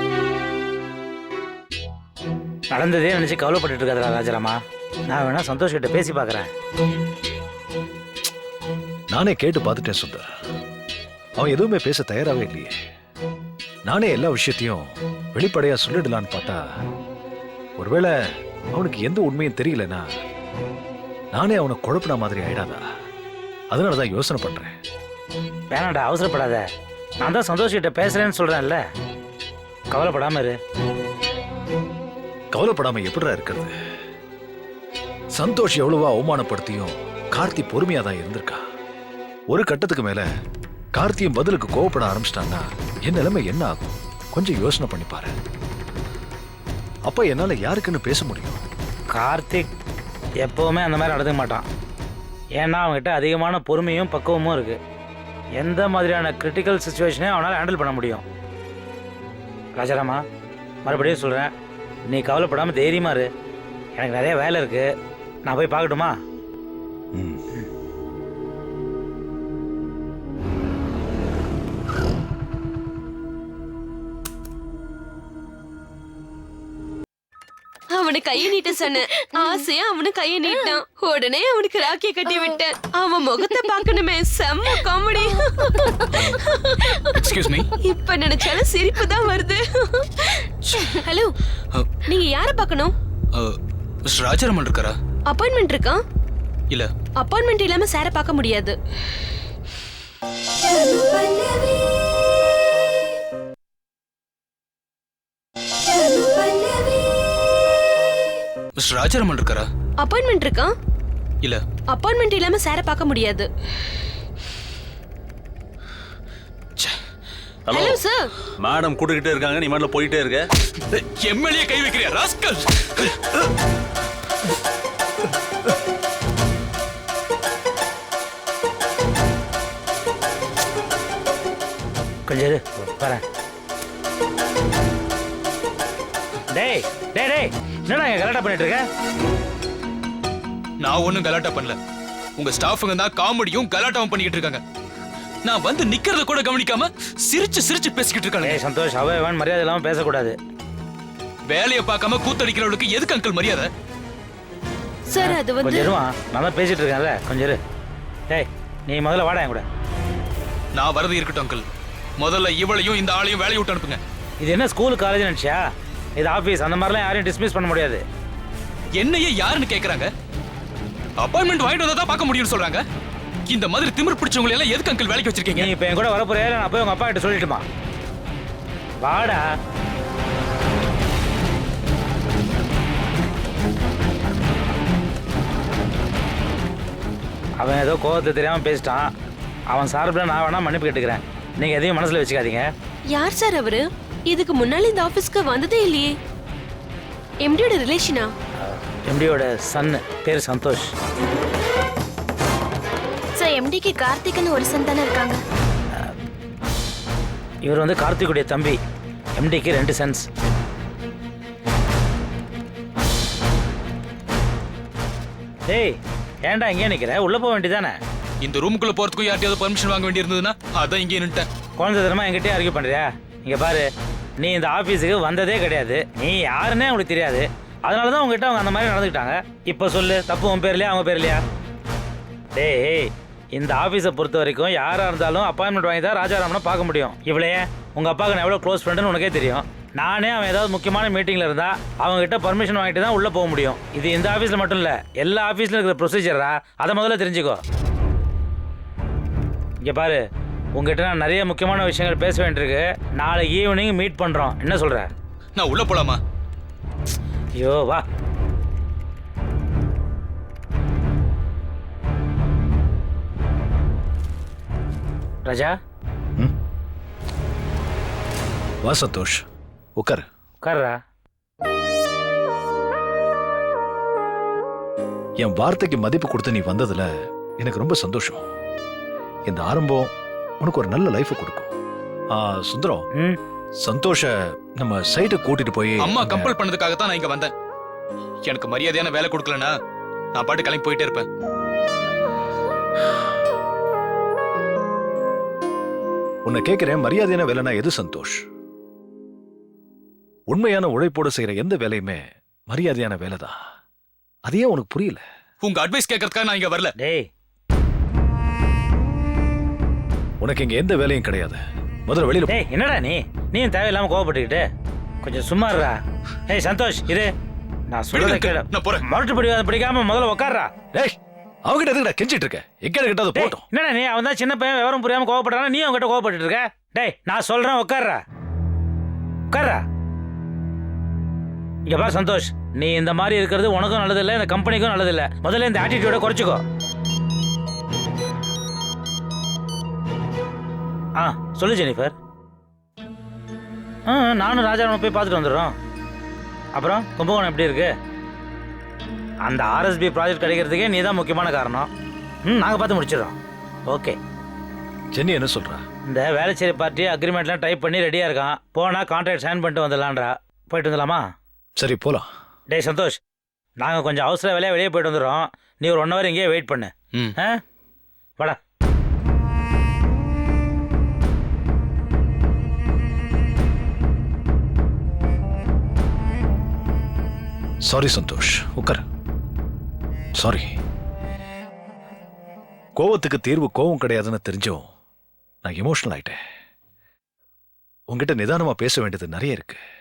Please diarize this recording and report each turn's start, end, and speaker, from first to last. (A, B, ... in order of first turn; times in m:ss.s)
0:02.7-0:04.6 A
0:05.1-0:06.5 A
0:09.1-0:10.3 B
0:11.4-0:12.8 B
0:13.9-0:16.6 B
0:17.8-0:18.1 B
0:18.7-0:20.0 B
0:21.3-0:22.8 B
0:23.7-0:24.7 B
0:25.7-0:26.6 A
0:27.2-0:28.8 A
0:29.9-0:30.6 A
0:32.5-0:33.7 B
0:35.3-0:38.6 B
0:39.5-0:40.2 B
0:40.9-0:45.3 B
0:47.1-0:48.6 B
0:49.1-0:49.7 A
0:50.4-0:51.6 A
0:52.6-0:54.8 A
0:55.6-0:58.2 A
0:59.8-1:00.2 A
1:00.8-1:01.5 A
1:02.1-1:03.3 A
1:04.0-1:04.9 A
1:05.4-1:06.1 A
1:07.1-1:07.4 B
1:17.9-1:31.3 C
1:27.1-1:27.7 D
1:30.6-1:30.9 D
1:32.0-1:32.9 C
1:33.3-1:34.9 D
1:35.3-1:36.0 C
1:37.2-1:38.8 C
1:48.8-1:49.7 D
1:50.0-1:50.7 C
1:51.9-1:53.5 C
1:57.7-1:58.0 E
1:57.7-1:58.3 C
1:58.6-2:00.4 E
2:00.9-2:03.2 D
2:12.3-2:13.2 A
2:16.5-2:18.8 A
2:20.8-2:21.8 D
2:22.4-2:24.6 D
2:25.4-2:28.6 D
2:28.4-2:30.4 A
2:31.5-2:33.7 D
2:35.1-2:35.9 C
2:35.2-2:37.6 A
2:38.3-2:39.6 A
2:40.7-2:41.6 D
2:42.2-2:44.0 D
2:44.4-2:45.6 A
2:46.2-2:48.0 A
2:49.0-2:50.1 D
2:51.2-2:52.8 D
2:53.5-2:55.7 D
2:55.5-2:57.6 A
2:59.0-2:59.4 A
3:07.6-3:09.1 A
3:09.7-3:12.7 A
3:13.1-3:16.1 C
3:17.4-3:18.3 C
3:19.1-3:20.9 A
3:23.4-3:25.4 F
3:27.6-3:28.8 A
3:29.4-3:30.2 A
3:35.7-3:38.0 A
3:38.4-3:41.5 D
3:41.8-3:43.8 A
3:44.4-3:51.4 A
3:52.5-4:07.6 A
4:09.8-4:10.2 A
4:10.7-4:15.1 A
4:15.6-4:16.2 D
4:17.6-4:18.0 A
4:25.4-4:25.7 A
4:28.8-4:29.4 B
4:30.0-4:30.2 B
4:30.6-4:31.0 A
4:35.4-4:37.1 B
4:37.6-4:38.4 B
4:39.5-4:41.7 B
4:42.3-4:43.1 B
4:43.8-4:46.6 B
4:46.0-4:47.5 D
4:48.4-4:49.7 D
4:50.3-4:51.2 D
4:56.4-4:58.4 B
5:00.5-5:03.6 B
5:04.4-5:05.2 B
5:05.6-5:06.9 D
5:07.0-5:07.3 A
5:10.4-5:12.6 B
5:12.5-5:14.6 A
5:15.2-5:16.0 A
5:16.5-5:17.3 A
5:17.9-5:20.7 A
5:18.1-5:19.0 D
5:20.9-5:23.6 B
5:23.3-5:28.2 A
5:29.5-5:29.8 A
5:31.9-5:36.6 A
5:41.2-5:42.1 A
5:44.1-5:45.7 A
5:46.7-5:47.9 A
5:49.4-5:51.9 A
5:52.5-5:53.3 A
5:53.9-5:54.2 A
5:55.1-5:55.8 B
5:56.1-6:01.2 A
6:01.8-6:02.3 B
6:02.7-6:03.2 A
6:03.8-6:07.6 A
6:17.8-6:19.0 B
6:20.4-6:20.7 B
6:23.0-6:24.8 B
6:25.6-6:26.4 B
6:28.1-6:29.8 B